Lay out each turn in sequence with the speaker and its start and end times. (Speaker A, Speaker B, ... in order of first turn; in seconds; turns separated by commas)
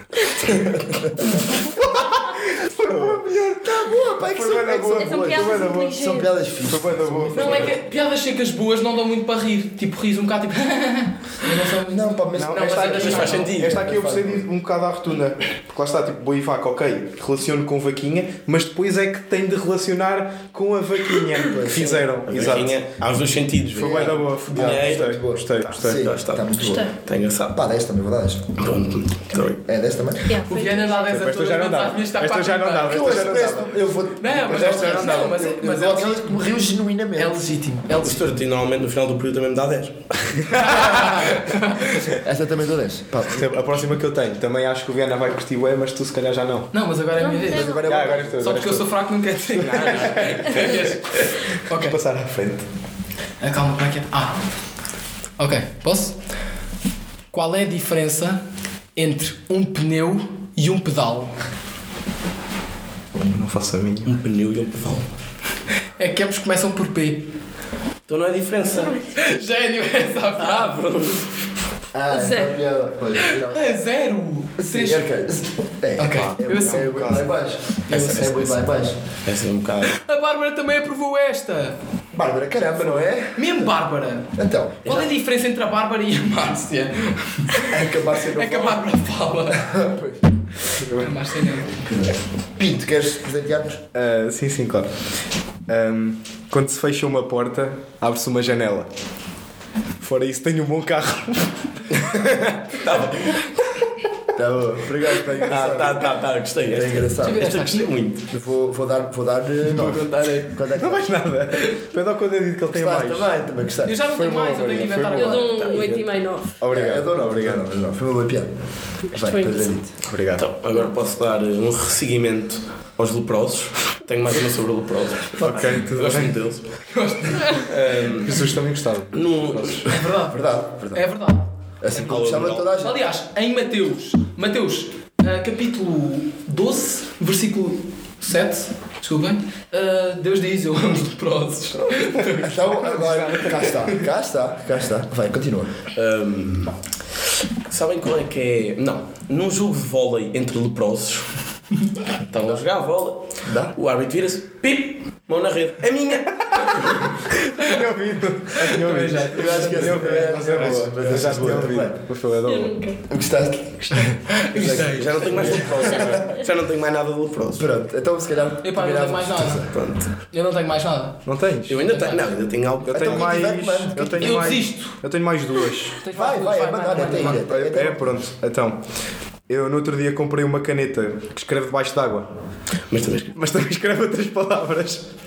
Speaker A: 0.5-1.0, Speaker B: 1.8-3.6, Speaker A: 2.9-7.8, Speaker B: 4.2-5.9, Speaker C: 4.9-6.3, Speaker B: 6.6-7.7, Speaker D: 7.3-13.5, Speaker A: 11.8-14.4, Speaker B: 12.3-22.8, Speaker E: 12.9-13.8, Speaker A: 21.5-22.6, Speaker E: 22.3-25.2, Speaker A: 23.7-26.9, Speaker B: 23.8-26.0, Speaker E: 25.8-27.6, Speaker C: 26.5-26.9, Speaker A: 27.5-28.6, Speaker E: 28.6-29.6, Speaker A: 29.6-30.3, Speaker C: 30.3-31.1, Speaker D: 30.4-33.5, Speaker B: 31.1-33.9, Speaker A: 32.8-37.5, Speaker D: 34.2-36.5, Speaker B: 34.4-35.3, Speaker D: 37.1-38.3, Speaker E: 38.0-41.0, Speaker D: 40.6-42.0, Speaker A: 42.2-43.5, Speaker B: 43.3-46.7, Speaker D: 46.7-52.0, Speaker C: 47.2-47.9, Speaker A: 47.5-48.7, Speaker B: 47.9-48.9, Speaker B: 49.6-50.9, Speaker E: 49.6-50.9, Speaker B: 51.7-52.6, Speaker D: 53.4-54.4, Speaker D: 55.4-56.2, Speaker D: 57.3-58.4, Speaker D: 59.0-61.3, Speaker B: 63.3-64.1, Speaker E: 64.0-65.0, Speaker D: 66.0-67.3, Speaker E: 68.1-69.0, Speaker C: 68.8-69.1, Speaker D: 69.1-70.8, Speaker E: 70.4-71.3, Speaker A: 71.9-73.8, Speaker C: 72.1-72.5, Speaker D: 73.2-75.1, Speaker A: 74.6-79.0, Speaker D: 76.0-78.9, Speaker B: 76.6-77.2, Speaker E: 79.2-79.9, Speaker D: 79.9-81.8, Speaker A: 82.1-83.7, Speaker D: 83.3-84.3, Speaker A: 84.3-85.0, Speaker D: 84.8-89.8, Speaker A: 87.7-88.8, Speaker A: 89.5-90.2, Speaker B: 90.8-91.1, Speaker D: 90.8-91.9, Speaker A: 91.8-93.8, Speaker B: 93.9-94.9, Speaker B: 95.7-98.9, Speaker B: 100.0-102.5, Speaker E: 102.7-103.4, Speaker A: 104.3-106.1, Speaker E: 105.4-108.3, Speaker A: 106.7-107.5, Speaker D: 107.2-107.9, Speaker A: 108.3-111.1, Speaker E: 109.7-110.5, Speaker B: 110.7-113.3, Speaker A: 112.7-114.0, Speaker D: 113.8-115.9, Speaker B: 114.0-116.0, Speaker C: 115.1-116.5, Speaker E: 115.6-116.0, Speaker B: 116.6-117.6, Speaker A: 116.7-118.5, Speaker A: 119.1-119.9, Speaker C: 119.2-119.7, Speaker B: 120.0-120.4, Speaker E: 120.3-126.7, Speaker A: 125.4-125.7, Speaker B: 125.4-126.4, Speaker D: 126.9-127.7, Speaker E: 127.5-128.5, Speaker B: 128.2-129.9, Speaker E: 129.1-129.9, Speaker D: 129.8-131.5, Speaker A: 130.3-131.0, Speaker A: 131.8-133.0, Speaker E: 131.9-132.7, Speaker D: 132.8-143.7, Speaker A: 142.3-145.8, Speaker E: 145.9-146.8, Speaker E: 147.7-151.3, Speaker E: 152.2-157.3, Speaker A: 153.4-153.7, Speaker B: 157.5-162.8, Speaker D: 158.6-160.7, Speaker A: 159.3-162.0, Speaker C: 162.4-163.0, Speaker A: 163.1-164.2, Speaker D: 164.2-165.7, Speaker B: 164.5-165.8, Speaker E: 164.7-167.7, Speaker A: 165.3-166.2, Speaker C: 165.8-166.4, Speaker A: 167.6-169.7, Speaker D: 168.6-172.2, Speaker E: 169.7-170.1, Speaker B: 171.2-171.8, Speaker E: 171.7-173.4, Speaker B: 172.8-176.0, Speaker A: 172.9-174.6, Speaker D: 174.2-175.0, Speaker D: 176.0-177.4, Speaker A: 176.1-178.2, Speaker B: 177.0-178.8, Speaker B: 179.5-182.3, Speaker E: 182.9-183.4, Speaker B: 183.3-185.1